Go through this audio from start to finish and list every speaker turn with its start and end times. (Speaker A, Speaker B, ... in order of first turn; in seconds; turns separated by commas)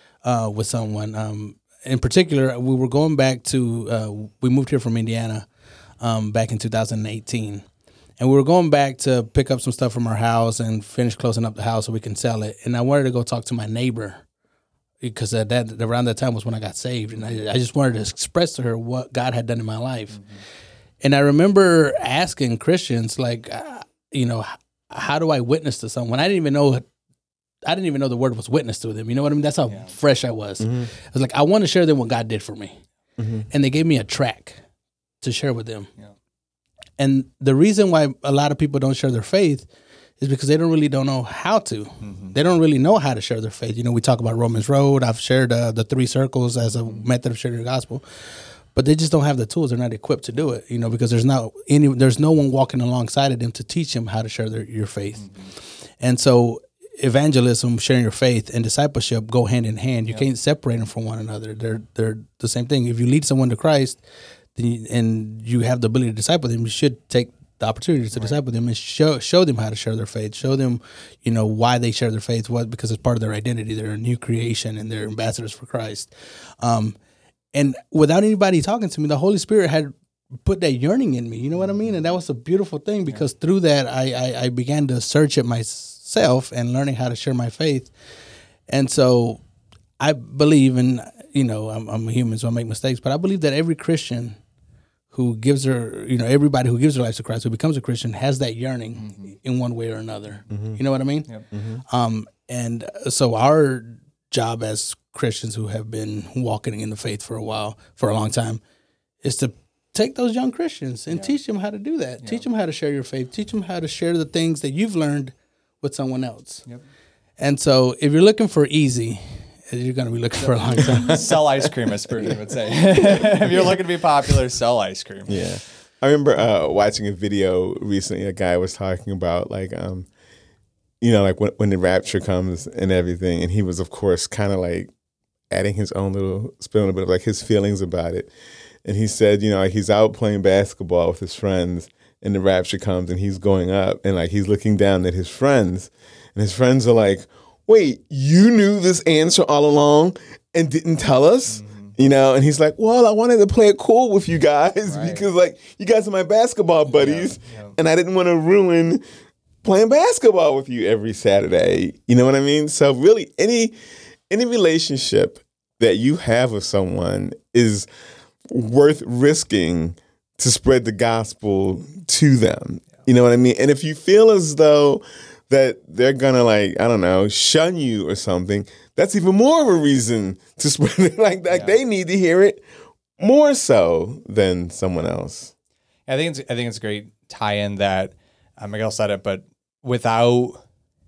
Speaker A: 0.2-5.5, Speaker A: 6.0-7.6, Speaker A: 8.2-14.2, Speaker A: 15.0-20.2, Speaker B: 20.1-20.4, Speaker A: 21.0-26.9, Speaker A: 27.6-32.8, Speaker B: 29.7-29.9, Speaker C: 30.6-30.9, Speaker C: 33.2-33.5, Speaker A: 33.5-34.6, Speaker A: 35.2-35.9, Speaker A: 37.0-64.0, Speaker B: 42.0-42.4, Speaker B: 46.8-47.1, Speaker B: 55.2-55.5, Speaker A: 64.5-77.0, Speaker B: 68.1-68.4, Speaker A: 77.5-87.9, Speaker A: 88.7-89.4, Speaker A: 90.0-94.4, Speaker A: 95.1-108.6, Speaker B: 99.0-99.3, Speaker C: 100.5-100.8, Speaker C: 101.5-101.8, Speaker A: 109.2-116.7, Speaker A: 117.4-121.7, Speaker B: 120.8-125.6, Speaker C: 125.3-130.1, Speaker C: 131.0-134.9, Speaker C: 135.5-138.3, Speaker C: 138.8-159.0, Speaker B: 151.5-151.9, Speaker B: 154.9-155.2, Speaker B: 156.9-157.7, Speaker C: 159.6-163.7, Speaker C: 164.3-167.9, Speaker C: 168.5-182.6, Speaker B: 181.5-181.8, Speaker C: 183.2-185.5, Speaker B: 186.1-190.6